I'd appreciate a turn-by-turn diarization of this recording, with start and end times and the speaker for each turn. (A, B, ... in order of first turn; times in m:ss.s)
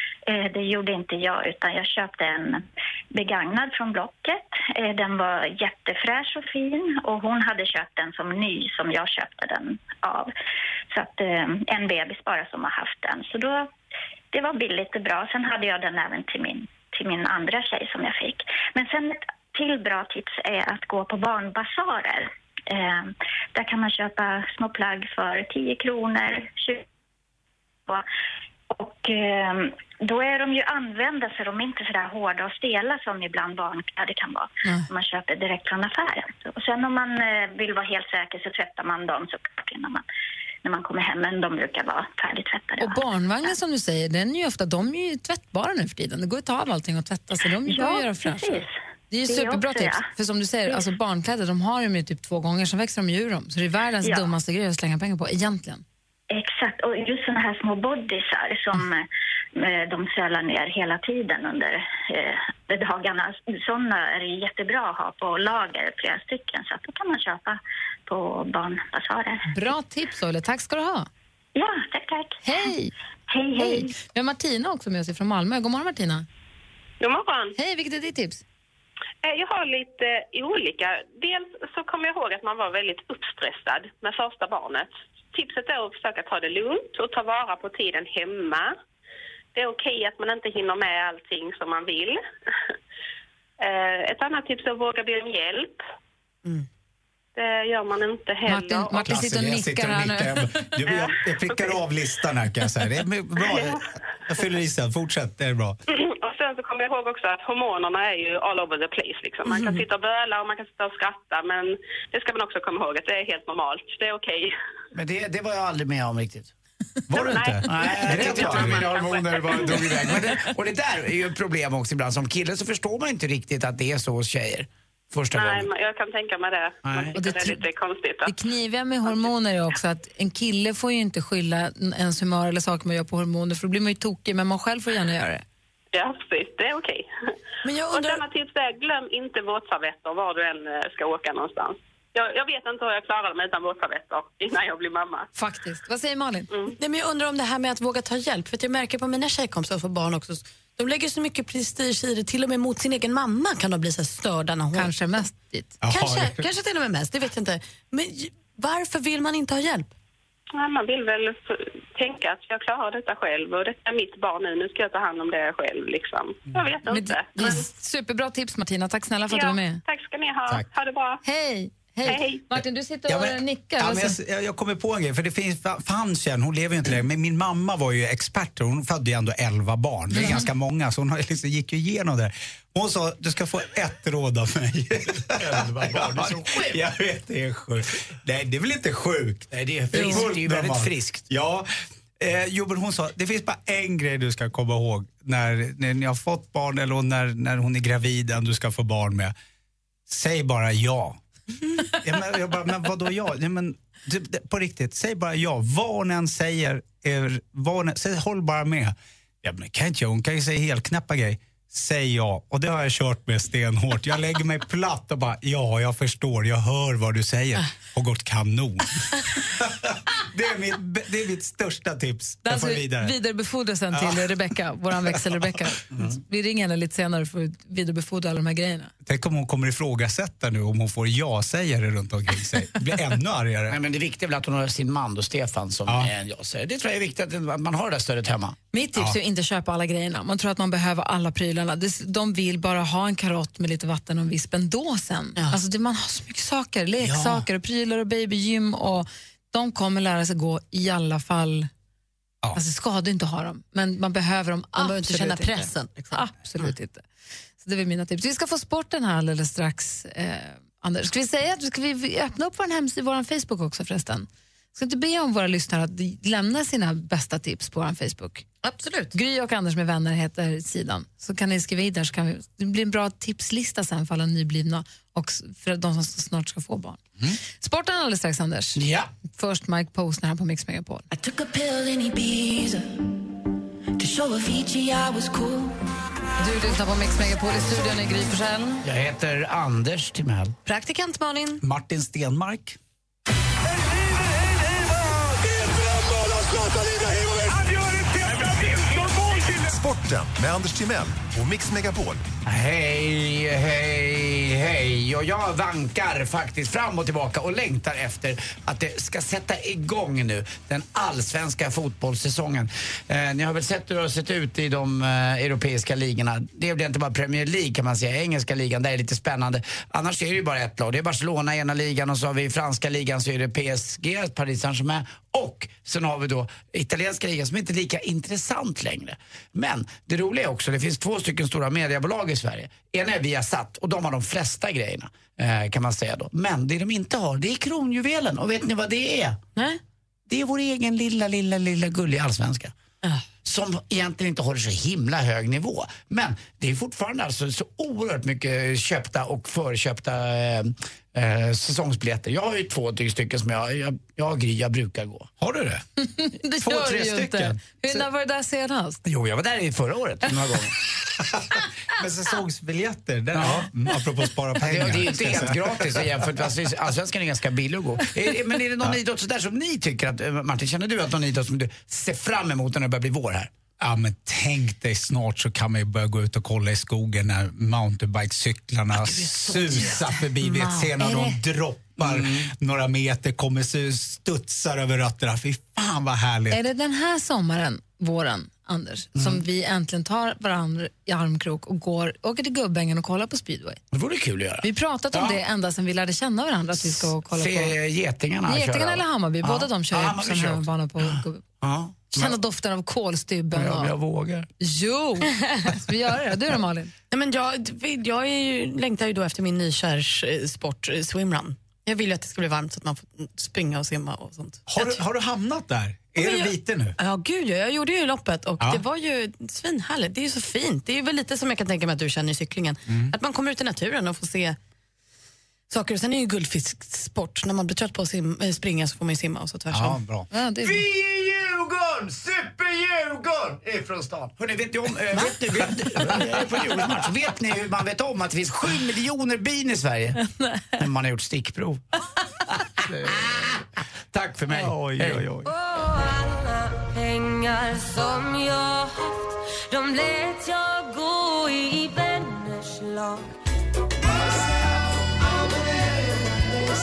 0:00.3-0:10.3 A
0:10.9-0:13.7 A
0:14.3-0:26.8 A
0:28.7-0:40.0 A
0:40.6-0:43.0 A
0:42.8-0:55.8 B
0:47.7-0:48.7 A
0:49.3-0:50.1 A
0:54.0-0:54.3 A
0:56.3-0:59.0 A
0:59.6-1:09.4 A
1:09.5-1:11.1 B
1:11.6-1:12.4 A
1:12.4-1:12.9 B
1:13.3-1:14.0 A
1:13.6-1:16.2 B
1:17.0-1:17.5 C
1:17.6-1:18.4 B
1:19.2-1:28.7 C
1:29.6-1:32.2 C
1:33.6-1:35.8 C
1:37.4-1:39.0 C
1:38.5-1:40.5 B
1:38.9-1:45.8 D
1:40.9-1:41.8 C
1:43.5-1:43.8 C
1:45.9-1:54.5 C
1:54.9-1:56.5 E
1:57.1-1:58.9 D
1:57.1-2:00.2 C
1:57.7-2:05.7 E
2:05.3-2:08.4 C
2:06.8-2:07.2 E
2:07.2-2:07.6 B
2:08.2-2:15.4 B
2:15.9-2:17.1 C
2:17.6-2:18.2 F
2:17.9-2:25.3 C
2:25.4-2:26.5 B
2:26.5-2:26.8 C
2:26.7-2:34.9 F
2:34.7-2:35.8 B
2:35.8-2:36.5 D
2:35.9-2:39.9 F
2:40.6-2:47.6 C
2:46.9-2:49.8 B
2:49.3-2:51.2 C
2:51.2-2:54.2 B
2:52.1-2:52.4 C
2:53.1-3:11.7 D
3:05.5-3:06.8 E
3:09.5-3:11.2 E
3:12.2-3:19.3 D
3:20.1-3:21.2 D
3:21.8-3:43.2 D
3:42.4-3:48.9 B
3:44.0-3:44.3 D
3:49.1-3:53.8 D
3:53.7-3:58.6 E
3:58.7-4:11.7 B
4:07.0-4:07.4 D
4:12.5-4:17.0 B
4:14.8-4:16.7 F
4:17.6-4:28.4 B
4:28.6-4:29.2 F
4:29.1-4:37.0 B
4:37.6-4:38.8 B
4:38.8-4:39.1 E
4:39.4-4:41.1 B
4:46.4-4:48.8 B
4:48.8-4:50.6 E
4:50.6-4:51.6 F
4:51.6-4:52.8 D
4:56.2-5:02.2 G
5:02.5-5:39.4 E
5:39.6-5:39.8 F
5:40.3-5:42.7 E
5:43.4-5:55.3 E
5:55.4-5:55.8 D
5:56.0-5:59.0 B
5:56.6-5:58.0 D
5:59.0-6:00.7 E
6:01.2-6:06.2 D
6:03.4-6:03.7 E
6:04.6-6:13.5 E
6:13.8-6:26.6 D
6:20.6-6:21.4 B
6:22.0-6:22.5 E
6:26.5-6:33.8 B
6:29.2-6:29.4 E
6:33.9-6:35.4 E
6:34.6-6:37.7 B
6:36.8-6:42.4 E
6:38.5-6:41.4 B
6:42.1-6:43.9 B
6:43.5-6:44.5 E
6:44.6-6:46.9 B
6:47.1-6:55.0 F
6:54.7-6:57.0 D
6:56.2-7:04.6 F
7:02.9-7:03.2 D
7:05.7-7:10.0 F
7:09.7-7:10.3 D
7:10.3-7:10.8 B
7:10.6-7:20.2 E
7:20.2-7:20.6 B
7:20.8-7:21.8 E
7:22.6-7:25.3 E
7:22.9-7:23.2 D
7:24.5-7:25.5 D
7:26.8-7:28.7 H
7:29.8-7:32.9 H